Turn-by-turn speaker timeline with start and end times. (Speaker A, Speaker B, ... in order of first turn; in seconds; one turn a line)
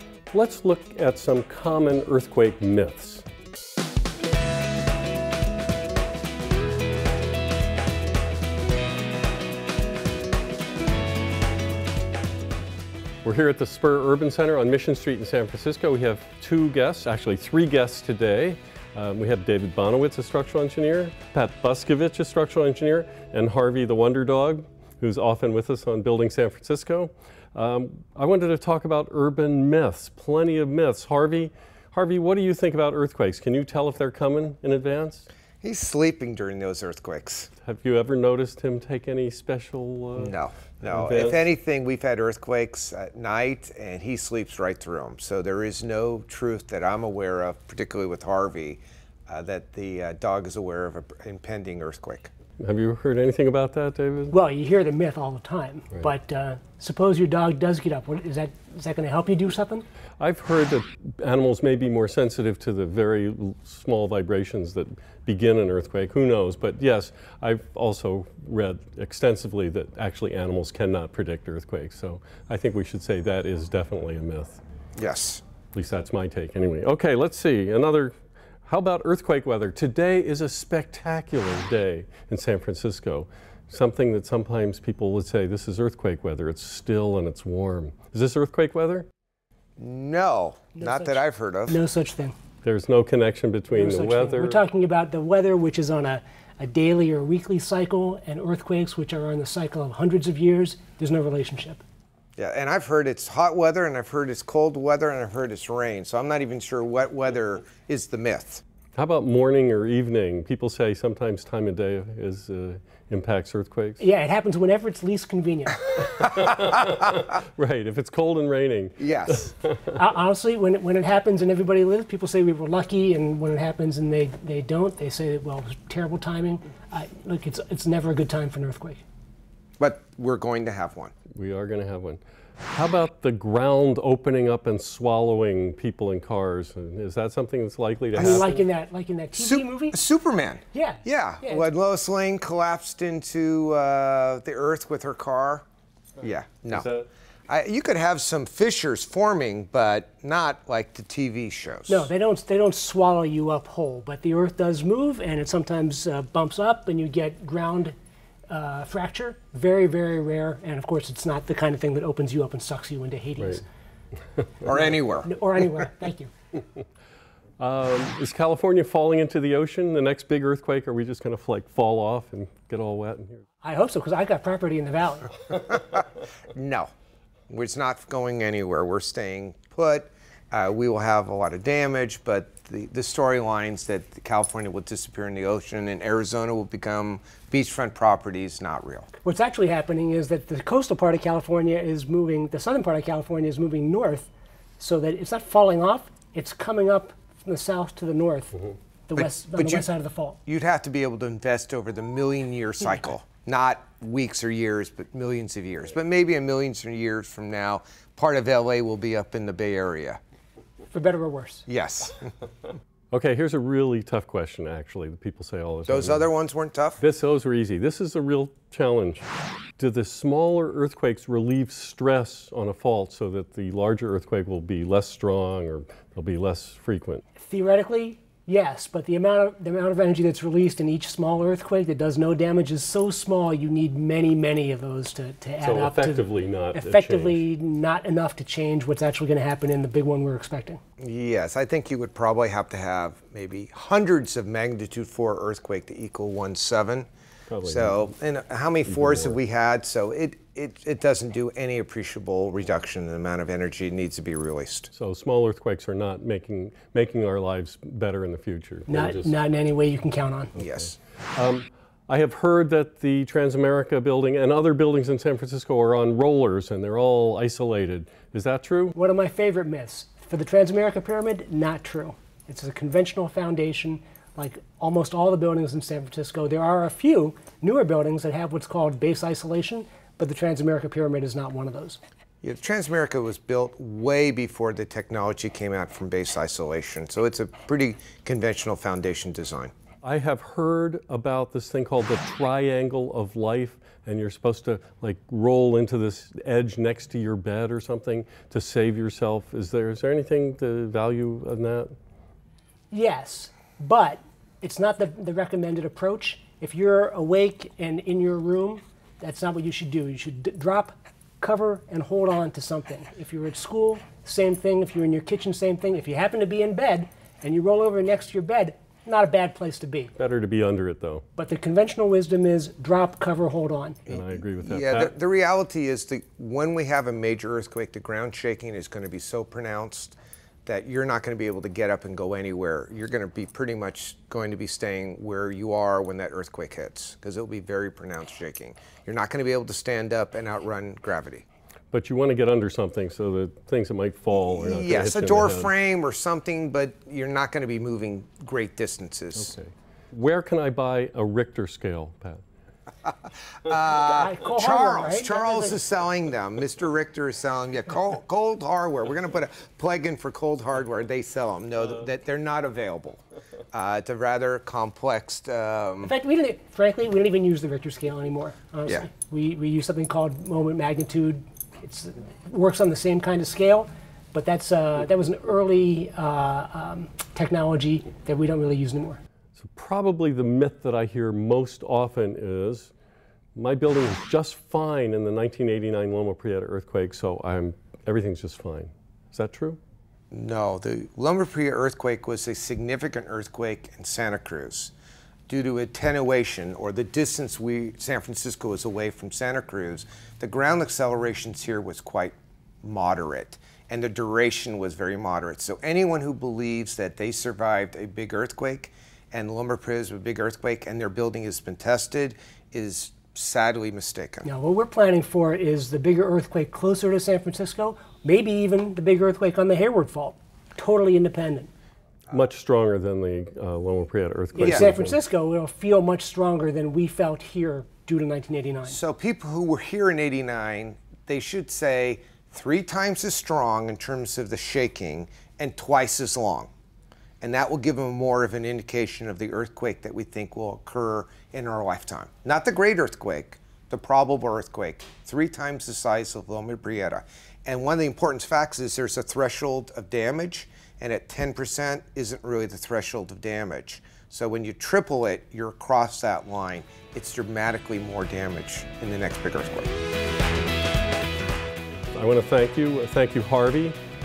Speaker A: 0.3-3.2
Speaker A: 13.2-35.3
Speaker B: 35.6-37.5
Speaker A: 37.6-41.5
Speaker B: 40.2-52.3
Speaker A: 52.6-54.3
Speaker C: 54.3-59.9
Speaker A: 60.2-74.6
Speaker B: 75.0-75.4
Speaker A: 75.7-78.1
Speaker A: 78.7-89.1
Speaker B: 89.8-91.8
Speaker C: 90.8-92.3
Speaker A: 92.6-94.6
Speaker C: 93.7-101.8
Speaker B: 102.4-108.6
Speaker A: 108.9-114.0
Speaker C: 114.0-116.2
Speaker A: 116.2-119.9
Speaker B: 119.0-119.5
Speaker C: 119.9-129.0
Speaker B: 129.8-131.1
Speaker A: 131.3-138.6
Speaker C: 138.1-140.0
Speaker B: 138.2-138.5
Speaker B: 139.3-145.6
Speaker C: 140.7-141.7
Speaker B: 146.2-146.9
Speaker A: 146.7-147.1
Speaker B: 147.5-152.1
Speaker C: 151.9-157.9
Speaker C: 158.5-163.6
Speaker B: 164.6-165.3
Speaker C: 165.2-166.3
Speaker A: 167.6-173.4
Speaker C: 173.6-175.4
Speaker B: 175.5-176.9
Speaker B: 177.5-189.1
Speaker C: 189.2-200.4
Speaker B: 199.2-199.8
Speaker B: 200.5-210.2
Speaker C: 210.9-211.6
Speaker B: 211.7-212.3
Speaker A: 213.1-216.3
Speaker B: 215.9-217.0
Speaker A: 217.0-219.2
Speaker A: 219.8-227.2
Speaker C: 227.4-240.8
Speaker A: 235.6-237.4
Speaker B: 241.0-247.1
Speaker A: 247.5-248.1
Speaker B: 247.6-254.9
Speaker A: 248.9-249.4
Speaker A: 254.9-259.3
Speaker C: 258.9-260.6
Speaker B: 260.6-260.9
Speaker A: 261.3-268.9
Speaker C: 268.9-282.0
Speaker B: 282.4-289.7
Speaker A: 290.0-301.9
Speaker C: 302.9-320.1
Speaker A: 320.1-321.2
Speaker C: 321.4-324.1
Speaker B: 324.1-341.4
Speaker A: 324.1-325.1
Speaker A: 341.9-345.7
Speaker B: 344.3-349.5
Speaker A: 349.4-352.4
Speaker B: 353.0-366.1
Speaker C: 354.1-355.8
Speaker C: 366.0-379.2
Speaker A: 379.6-382.9
Speaker A: 383.6-389.8
Speaker B: 390.3-394.9
Speaker B: 395.5-414.5
Speaker C: 414.4-421.7
Speaker A: 422.3-425.2
Speaker C: 424.5-429.0
Speaker B: 424.6-424.9
Speaker B: 428.9-436.7
Speaker B: 437.4-459.9
Speaker A: 462.1-463.9